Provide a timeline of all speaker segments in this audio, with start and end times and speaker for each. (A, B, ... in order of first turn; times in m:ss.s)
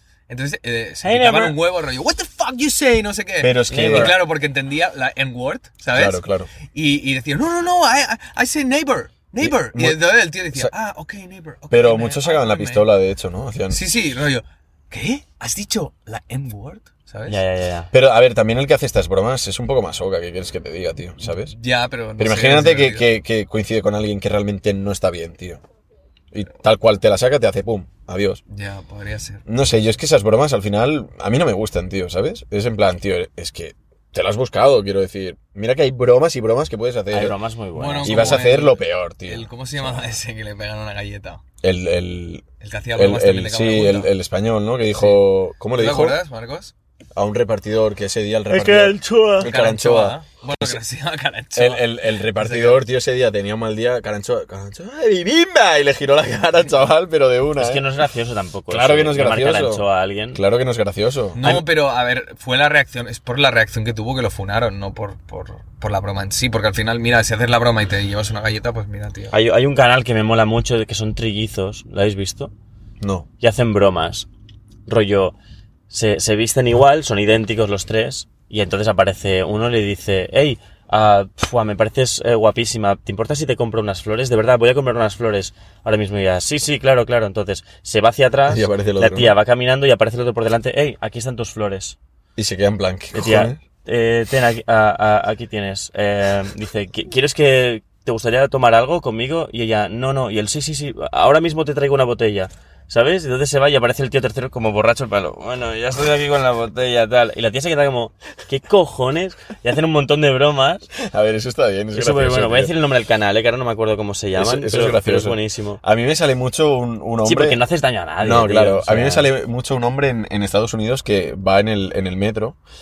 0:00.3-0:12.8 A
0:01.0-0:01.6 B
0:03.4-0:04.2 C
0:03.7-0:04.2 B
0:05.9-0:06.5 C
0:09.4-0:10.7 C
0:11.7-0:13.8 C
0:13.7-0:17.4 A
0:17.3-0:17.9 B
0:17.9-0:21.5 C
0:21.5-0:23.1 A
0:22.2-0:25.6 C
0:26.3-0:28.4 C
0:28.5-0:29.4 A
0:29.4-0:37.4 C
0:37.1-0:38.4 B
0:37.7-0:41.4 A
0:38.0-0:40.1 C
0:41.6-0:42.4 C
0:42.6-0:44.1 A
0:42.9-0:46.2 C
0:45.7-0:46.7 A
0:47.1-0:50.8 C
0:48.5-0:49.5 B
0:49.4-0:52.8 A
0:51.5-0:57.8 C
0:57.6-1:00.4 B
0:58.7-1:01.6 C
1:01.3-1:09.3 A
1:09.3-1:12.5 B
1:13.0-1:13.3 C
1:13.4-1:14.3 B
1:14.8-1:15.4 B
1:15.9-1:32.0 B
1:28.5-1:29.3 C
1:32.4-1:33.6 C
1:33.1-1:50.9 B
1:51.0-1:52.7 C
1:51.9-1:55.8 B
1:54.4-1:57.6 C
1:57.2-1:59.3 B
1:58.2-2:02.6 C